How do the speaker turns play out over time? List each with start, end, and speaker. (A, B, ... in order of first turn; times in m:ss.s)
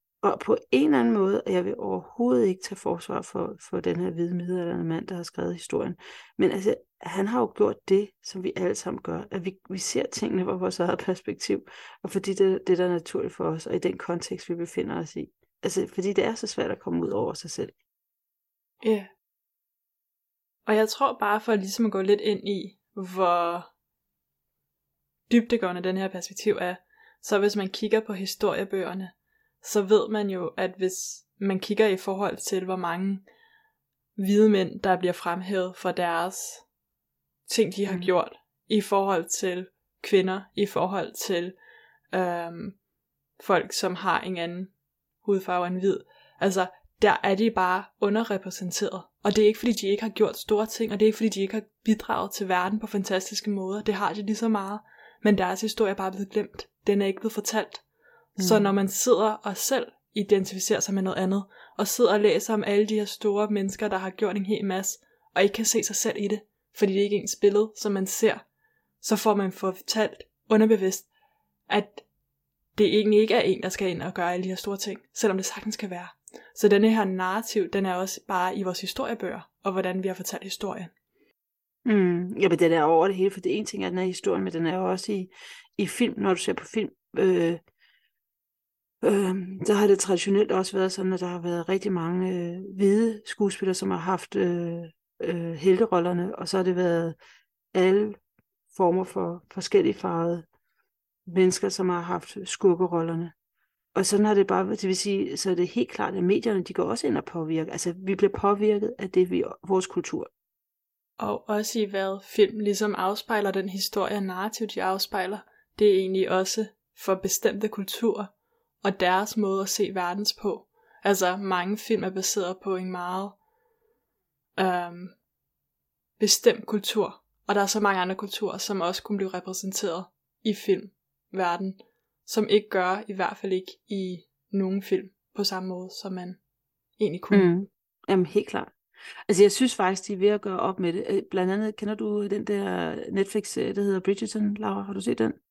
0:00.2-0:17.7 A
0:18.8-0:19.1 B
0:20.7-0:23.7 B
0:25.3-0:33.2 B
0:34.2-0:36.6 B
0:37.5-0:41.6 B
0:42.1-0:42.8 B
0:43.4-0:44.7 B
0:45.2-0:57.8 B
0:58.4-0:58.7 A
0:58.4-1:08.4 B
1:09.0-1:11.1 B
1:11.7-1:12.0 B
1:12.8-1:20.9 B
1:21.9-1:27.6 A
1:29.0-1:37.2 A
1:37.7-1:38.2 A
1:38.7-1:40.5 A
1:41.3-1:43.3 A
1:44.0-1:50.3 A
1:51.2-1:58.3 B
1:58.8-2:03.4 B
2:04.6-2:05.2 B
2:06.2-2:16.4 B
2:17.0-2:17.5 B
2:17.3-2:18.7 A
2:19.3-2:25.4 A